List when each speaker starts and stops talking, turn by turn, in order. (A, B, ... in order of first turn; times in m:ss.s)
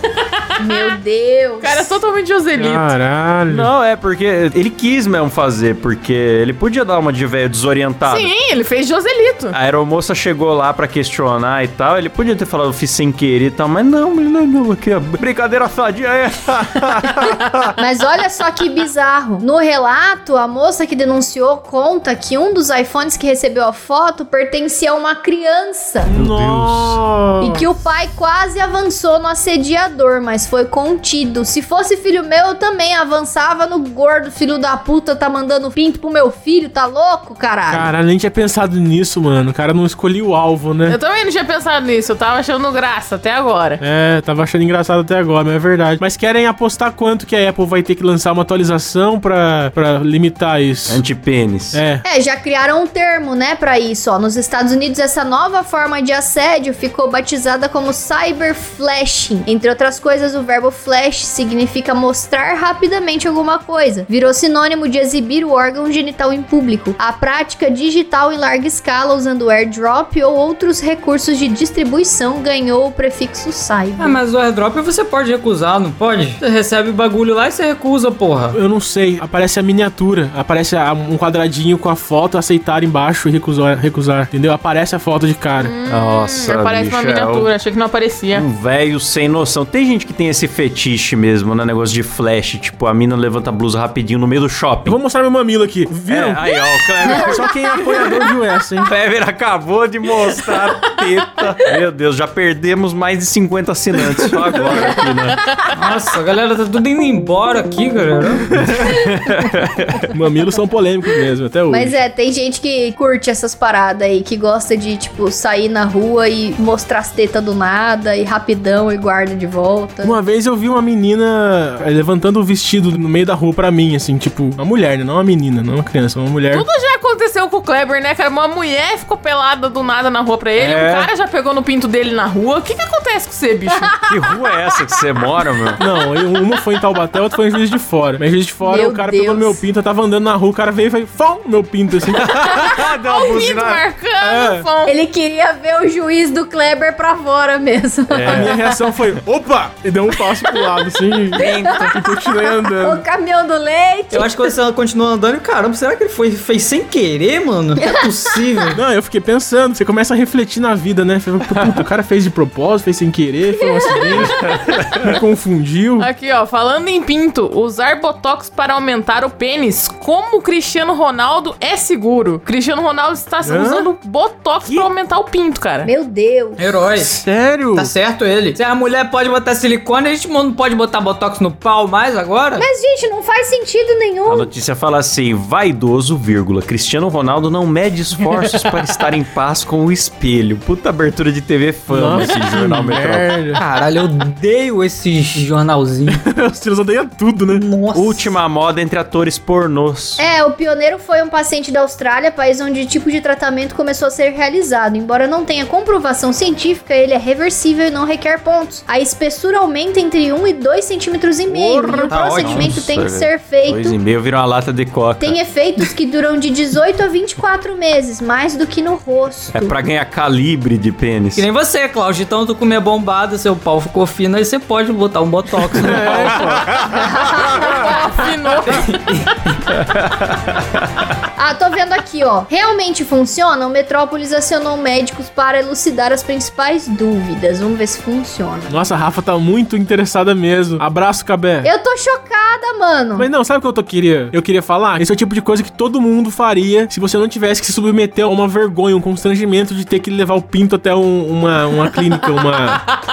0:00.6-0:01.9 A
0:00.7-0:00.9 B
0:01.6-0:03.0 B
0:02.6-0:03.7 C
0:03.5-0:08.3 D
0:08.0-0:09.6 B
0:09.5-0:17.7 D
0:17.8-0:26.1 A
0:26.1-0:27.6 C
0:26.1-0:27.0 D
0:27.4-0:37.9 A
0:37.7-0:41.0 C
0:40.9-0:43.8 B
0:43.8-0:51.0 C
0:50.9-0:51.8 D
0:51.7-0:52.0 C
0:52.0-1:14.2 A
1:14.0-1:18.6 E
1:18.5-1:25.7 C
1:25.6-1:28.4 B
1:25.9-1:27.5 D
1:28.3-1:35.0 D
1:34.9-1:36.4 C
1:36.1-1:38.3 D
1:37.0-1:38.9 C
1:38.8-1:45.5 D
1:45.8-1:48.4 E
1:48.6-1:50.0 D
1:50.1-1:52.0 C
1:51.7-2:00.2 A
2:00.0-2:06.7 C
2:06.5-2:14.8 B
2:10.6-2:11.1 D
2:14.0-2:15.8 D
2:15.8-2:17.6 B
2:15.8-2:22.6 C
2:18.6-2:19.6 A
2:22.1-2:23.9 D
2:22.4-2:24.9 B
2:24.2-2:24.7 C
2:24.9-2:28.8 A
2:28.1-2:28.7 D
2:28.3-2:33.0 C
2:30.4-2:30.8 A
2:31.4-2:31.9 D
2:31.4-2:34.5 A
2:34.1-2:38.8 E
2:37.8-2:38.4 A
2:38.7-2:46.1 C
2:41.5-2:41.8 D
2:43.6-2:44.2 A
2:44.3-2:45.2 D
2:46.0-2:55.9 B
2:53.4-2:53.9 C
2:55.8-2:56.8 A
2:56.6-2:57.1 E
2:57.0-2:57.9 C
2:57.8-3:02.6 E
3:02.6-3:04.5 A
3:04.3-3:13.5 D
3:08.4-3:09.0 E
3:11.9-3:13.6 C
3:13.6-3:16.2 E
3:16.1-3:17.7 C
3:17.6-3:18.3 E
3:17.9-3:20.2 D
3:20.2-3:34.0 A
3:31.5-3:35.4 D
3:32.1-3:32.7 E
3:35.2-3:39.8 A
3:39.5-3:41.5 D
3:41.4-3:46.3 E
3:45.7-3:46.4 D
3:45.8-3:46.8 C
3:46.8-3:48.0 A
3:47.4-3:49.2 B
3:48.7-3:49.2 E
3:49.8-3:50.3 D
3:51.4-3:58.8 A
3:58.7-4:01.7 C
4:01.6-4:03.3 A
4:03.2-4:12.8 C
4:12.0-4:12.8 B